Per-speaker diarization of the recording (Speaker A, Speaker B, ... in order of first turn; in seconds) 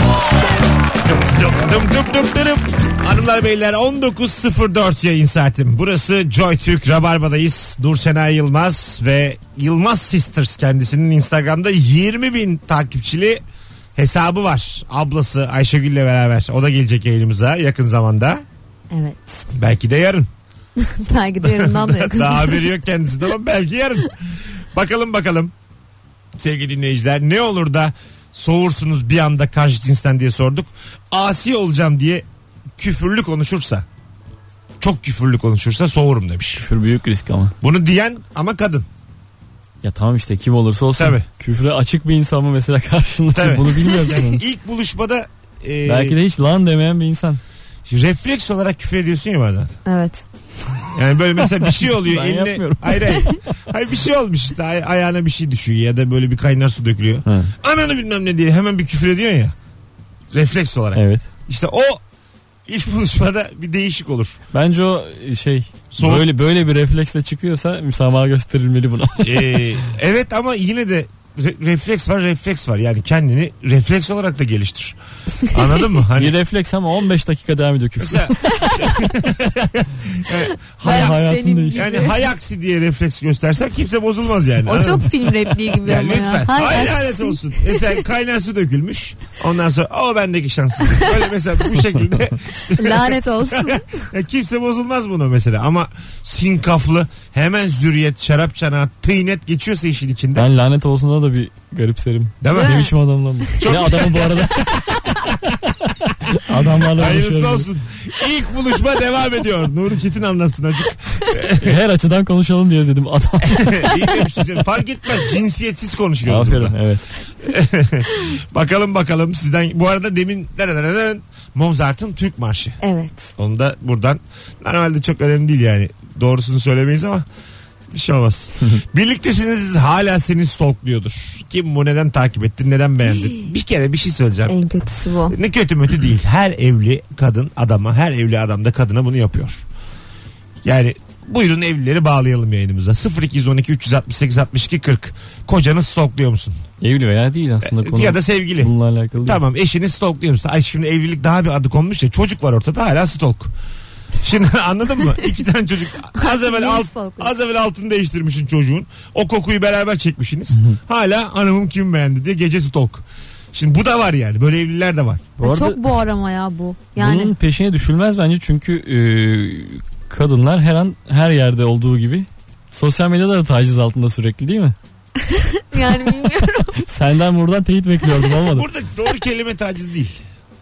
Speaker A: 1.2-13.4, 13.9-18.4, 19.5-20.3, 21.4-25.5, 26.4-32.2, 32.8-33.9, 34.8-36.6, 37.6-38.9, 41.0-41.2, 43.3-46.1, 47.9-49.8, 50.9-59.5, 60.3-62.0, 62.7-64.4, 65.9-66.2, 69.2-76.4, 78.0-81.2, 81.7-85.1, 85.8-100.5, 102.4-102.9, 103.6-105.3, 106.9-111.8, 113.6-116.8, 117.4-122.8, 123.4-127.2, 127.9-134.6, 135.3-139.7, 140.6-146.6, 147.6-153.5, 154.2-165.3, 178.5-180.2
Speaker B: 18.9-19.5, 20.8-22.7, 49.9-50.2, 80.8-82.2, 84.7-87.9, 92.7-93.8, 102.5-102.9, 122.8-123.3, 134.5-135.3, 156.1-157.3, 165.4-167.3, 175.2-176.8
Speaker C: 36.6-37.5, 39.8-44.4, 45.9-47.4, 51.6-53.5, 57.3-57.5, 60.9-61.2, 64.5-69.6, 76.1-78.8, 80.8-81.8, 100.3-104.7, 106.3-107.7, 111.6-113.9, 116.2-117.0, 146.8-149.4, 165.4-165.8, 167.0-174.8, 176.8-178.7